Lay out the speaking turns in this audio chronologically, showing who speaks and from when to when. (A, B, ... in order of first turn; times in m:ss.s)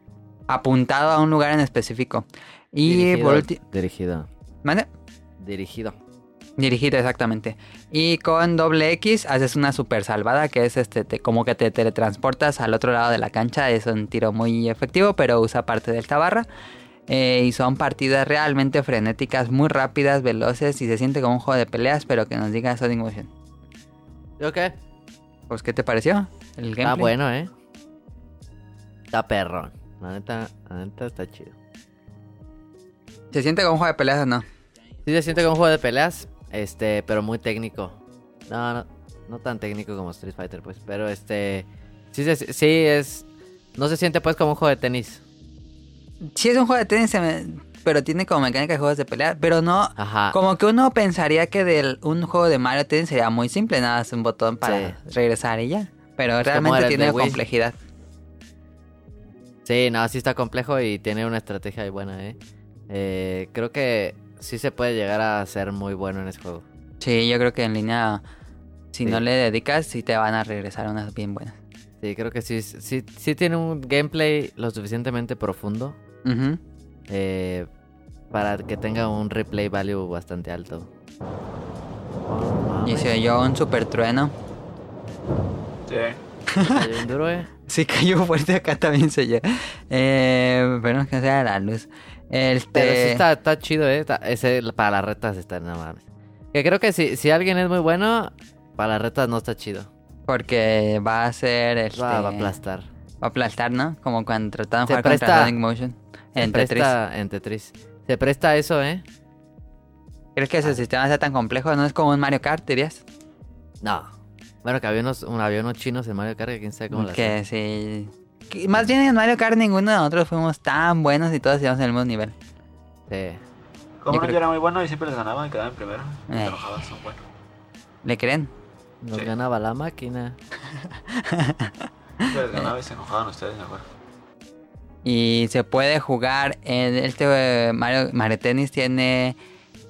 0:00.5-0:03.6 A
0:02.8-0:04.3 B
0:05.4-0:06.0 B
0:06.6-0:16.5 A
0:17.1-0:23.3 A
0:24.4-0:24.7 B
0:25.5-0:27.1 A
0:26.8-0:27.5 B
0:29.1-0:31.6 B
0:33.3-0:34.4 A
0:35.0-0:45.2 B
0:46.3-0:57.8 A
0:50.0-0:50.4 B
0:54.6-0:55.0 B
0:56.4-0:57.4 B
0:59.6-1:02.4 B
1:02.9-1:06.6 B
1:07.0-1:08.2 A
1:08.9-1:11.6 A
1:12.0-1:16.0 B
1:16.2-1:16.6 A
1:17.1-1:17.7 B
1:18.3-1:20.9 B
1:22.3-1:23.2 B
1:22.8-1:24.3 A
1:25.9-1:26.2 C
1:26.5-1:26.9 A
1:26.7-1:27.5 B
1:27.7-1:33.2 A
1:32.7-1:39.9 B
1:40.3-1:42.6 A
1:41.9-1:42.9 B
1:43.2-1:46.9 A
1:44.9-1:45.6 B
1:46.4-1:49.0 B
1:50.4-1:53.0 A
1:53.8-1:54.1 B
1:54.6-1:57.4 B
1:56.9-2:02.3 A
2:03.1-2:03.4 B
2:04.0-2:07.2 C
2:04.1-2:04.4 A
2:06.3-2:06.6 A
2:08.0-2:08.5 A
2:09.0-2:10.4 B
2:11.1-2:11.8 A
2:12.2-2:13.9 C
2:15.0-2:19.4 A